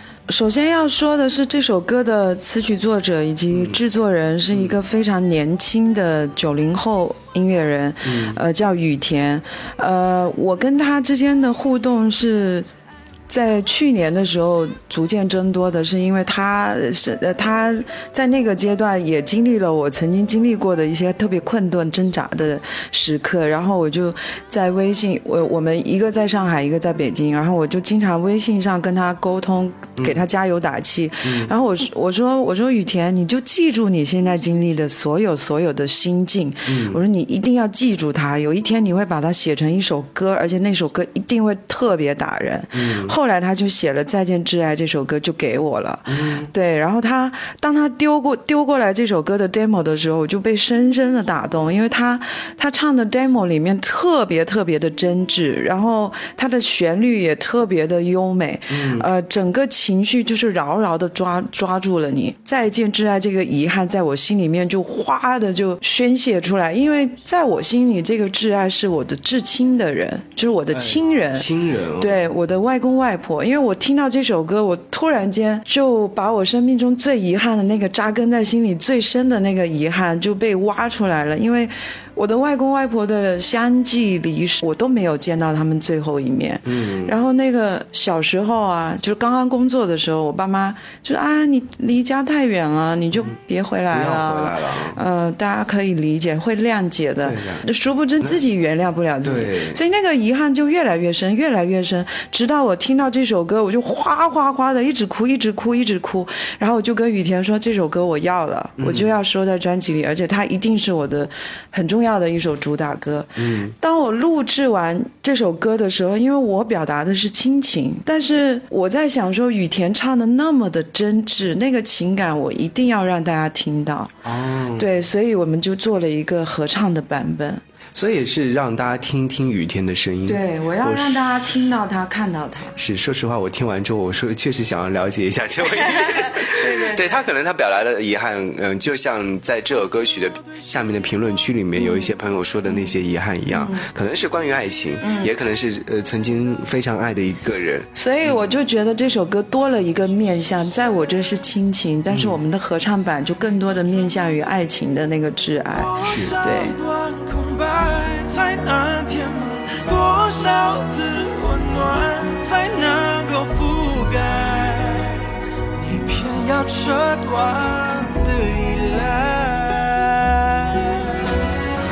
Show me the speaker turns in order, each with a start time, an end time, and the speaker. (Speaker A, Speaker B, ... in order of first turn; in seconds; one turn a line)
Speaker A: 0.3-12.7
Speaker B: 3.5-3.8
Speaker B: 8.1-8.4
Speaker A: 13.3-71.5
Speaker B: 31.2-31.5
Speaker B: 36.7-37.0
Speaker B: 42.7-43.1
Speaker B: 46.1-46.5
Speaker B: 58.7-59.1
Speaker B: 70.7-72.2
Speaker A: 72.0-124.2
Speaker B: 86.7-87.2
Speaker B: 93.9-95.0
Speaker B: 97.2-97.7
Speaker B: 99.2-99.8
Speaker B: 108.8-109.1
Speaker B: 113.4-113.8
Speaker B: 124.2-124.9
Speaker A: 124.8-127.6
Speaker B: 128.0-131.3
Speaker A: 130.3-132.8
Speaker B: 132.8-148.4
Speaker A: 135.8-137.2
Speaker A: 141.8-142.1
Speaker A: 143.5-143.9
Speaker A: 145.0-145.3
Speaker A: 147.9-156.8
Speaker B: 152.1-152.4
Speaker C: 155.8-171.4
Speaker B: 156.0-156.4